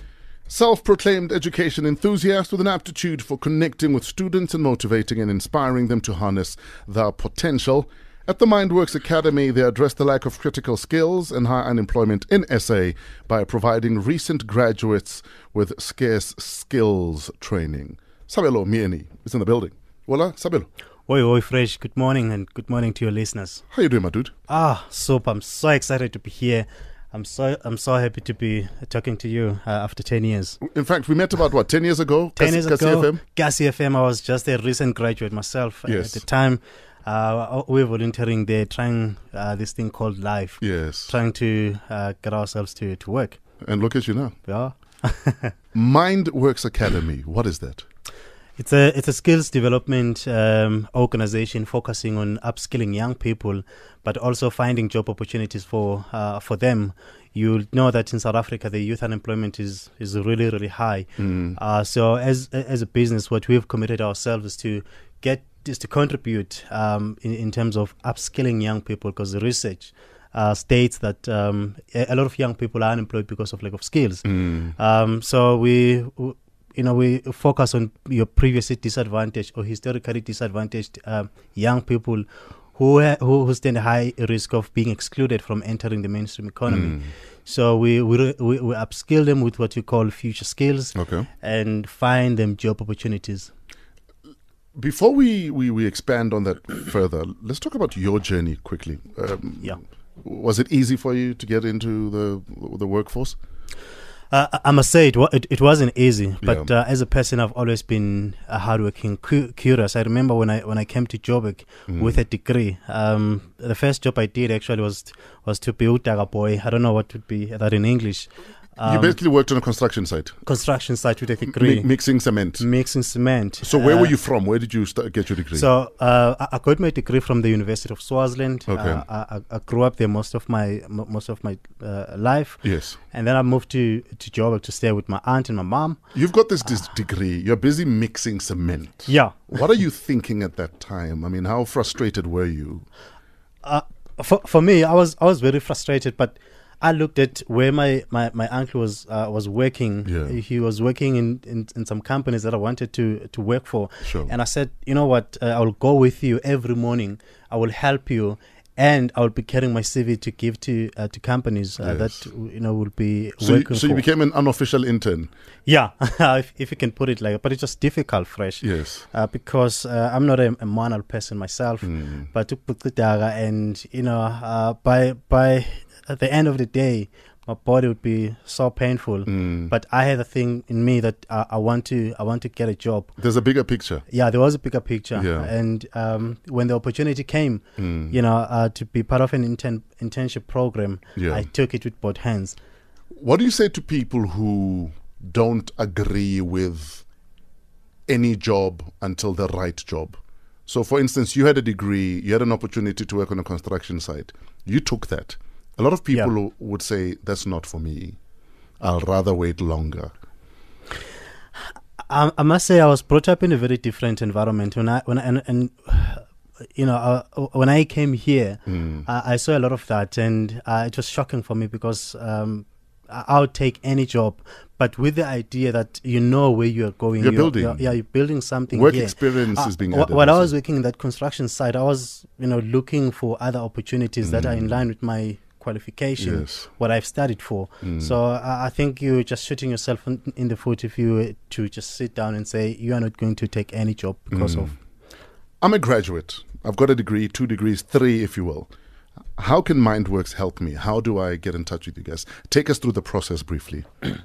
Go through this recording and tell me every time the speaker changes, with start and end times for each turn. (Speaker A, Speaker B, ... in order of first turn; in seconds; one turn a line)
Speaker A: 0.5-20.7
Speaker B: 21.1-23.6
Speaker A: 23.7-24.3
Speaker B: 24.5-30.6
Speaker A: 30.6-33.2
Speaker B: 32.4-43.4
Speaker A: 35.9-36.2
Speaker A: 40.6-41.1
Speaker A: 43.6-44.3
Speaker B: 44.5-45.5
Speaker A: 45.7-47.9
Speaker B: 48.6-93.5
Speaker A: 61.2-61.5
Speaker A: 74.3-74.7
Speaker A: 86.7-87.1
Speaker A: 90.9-91.3
Speaker A: 94.8-103.3
Speaker B: 104.3-119.2
Speaker A: 106.4-106.7
Speaker A: 111.9-112.2
Speaker A: 118.8-120.4
Speaker B: 120.5-121.9
Speaker A: 121.5-122.7
Speaker B: 122.6-124.1
Speaker A: 123.6-125.7
Speaker B: 125.5-136.0
Speaker A: 128.7-129.0
Speaker A: 132.6-133.0
Speaker A: 136.1-142.8
Speaker B: 139.1-139.5
Speaker B: 143.6-164.0
Speaker A: 150.1-150.3
Speaker A: 154.0-154.3
Speaker A: 161.8-162.2
Speaker A: 163.4-165.3
Speaker B: 165.7-183.1
Speaker A: 168.6-169.0
Speaker A: 171.8-172.3
Speaker A: 179.3-179.7
Speaker A: 183.2-184.0
Speaker B: 184.1-192.6
Speaker A: 185.2-185.5
Speaker A: 187.8-188.1
Speaker A: 191.2-191.4
Speaker A: 193.2-197.0
Speaker A: 198.1-208.2
Speaker A: 208.8-210.1
Speaker B: 212.1-244.7
Speaker A: 218.7-219.0
Speaker A: 227.2-227.9
Speaker A: 228.7-230.5
Speaker A: 234.2-234.6
Speaker A: 236.2-236.7
Speaker A: 237.8-238.1
Speaker A: 244.4-244.7
Speaker A: 245.6-248.7
Speaker A: 249.4-253.8